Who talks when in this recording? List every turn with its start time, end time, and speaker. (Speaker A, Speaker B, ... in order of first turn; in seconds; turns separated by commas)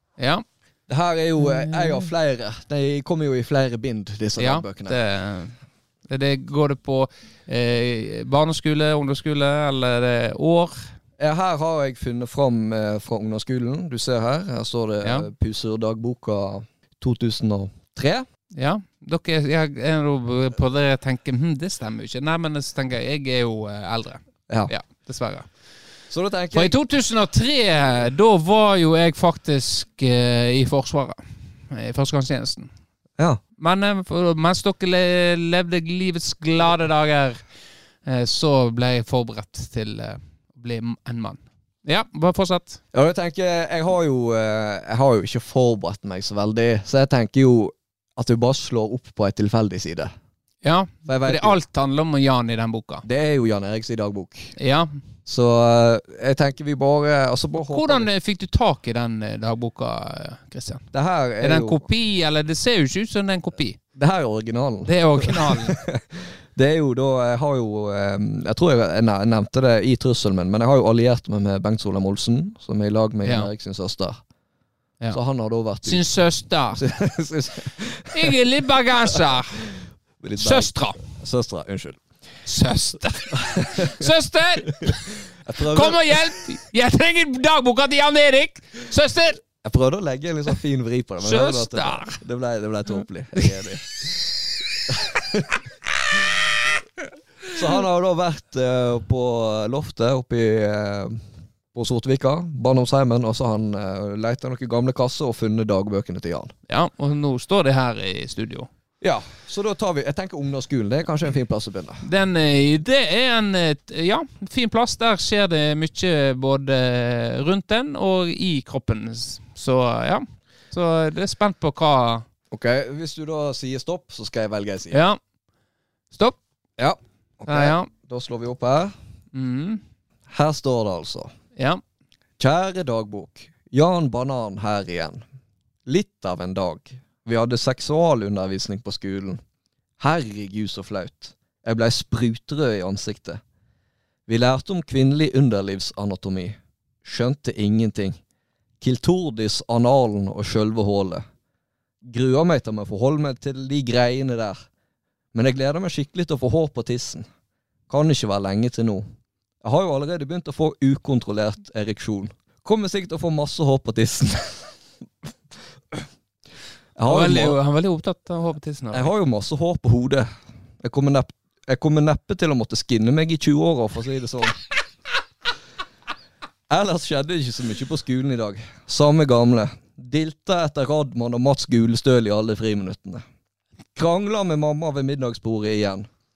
Speaker A: 0.2-0.4, Speaker B: 0.9-5.0, Speaker A: 1.4-2.1, Speaker A: 4.4-5.5, Speaker A: 6.1-10.9, Speaker B: 11.2-18.3, Speaker A: 15.0-15.3, Speaker A: 18.5-25.5, Speaker B: 26.1-26.7, Speaker A: 26.5-32.7, Speaker A: 33.6-37.4, Speaker A: 38.0-42.8, Speaker B: 42.9-50.1, Speaker A: 50.6-53.0, Speaker B: 51.0-51.6, Speaker B: 53.0-54.5, Speaker A: 54.5-54.9, Speaker B: 55.2-58.1, Speaker A: 57.6-60.9, Speaker B: 60.9-61.9, Speaker A: 61.4-63.8, Speaker B: 63.9-74.2, Speaker A: 64.8-65.8, Speaker A: 73.2-73.5, Speaker B: 75.1-76.0, Speaker A: 75.8-76.8, Speaker B: 76.7-78.3, Speaker A: 78.1-79.7, Speaker B: 80.2-82.0, Speaker A: 80.4-81.0, Speaker A: 82.5-89.4, Speaker B: 83.4-84.0, Speaker B: 85.4-86.3, Speaker B: 89.6-94.3, Speaker A: 91.2-92.2, Speaker B: 94.9-95.5, Speaker B: 96.1-96.4, Speaker B: 97.5-106.5, Speaker A: 106.7-108.7, Speaker B: 109.0-112.0, Speaker A: 112.0-122.2, Speaker B: 122.5-125.0, Speaker A: 124.9-125.2, Speaker A: 126.1-126.4, Speaker B: 126.8-128.9, Speaker A: 127.5-127.9, Speaker A: 129.3-129.8, Speaker B: 130.3-131.3, Speaker A: 131.6-131.8, Speaker B: 132.4-135.2, Speaker B: 135.8-139.4, Speaker B: 140.0-143.4, Speaker B: 144.3-148.2, Speaker B: 148.8-151.2, Speaker B: 152.0-154.7, Speaker B: 155.3-157.2, Speaker B: 157.9-159.0, Speaker B: 159.6-164.7, Speaker B: 166.9-167.6, Speaker A: 167.1-169.1, Speaker B: 168.9-170.3, Speaker B: 170.8-174.6, Speaker B: 176.7-183.2, Speaker B: 183.9-186.1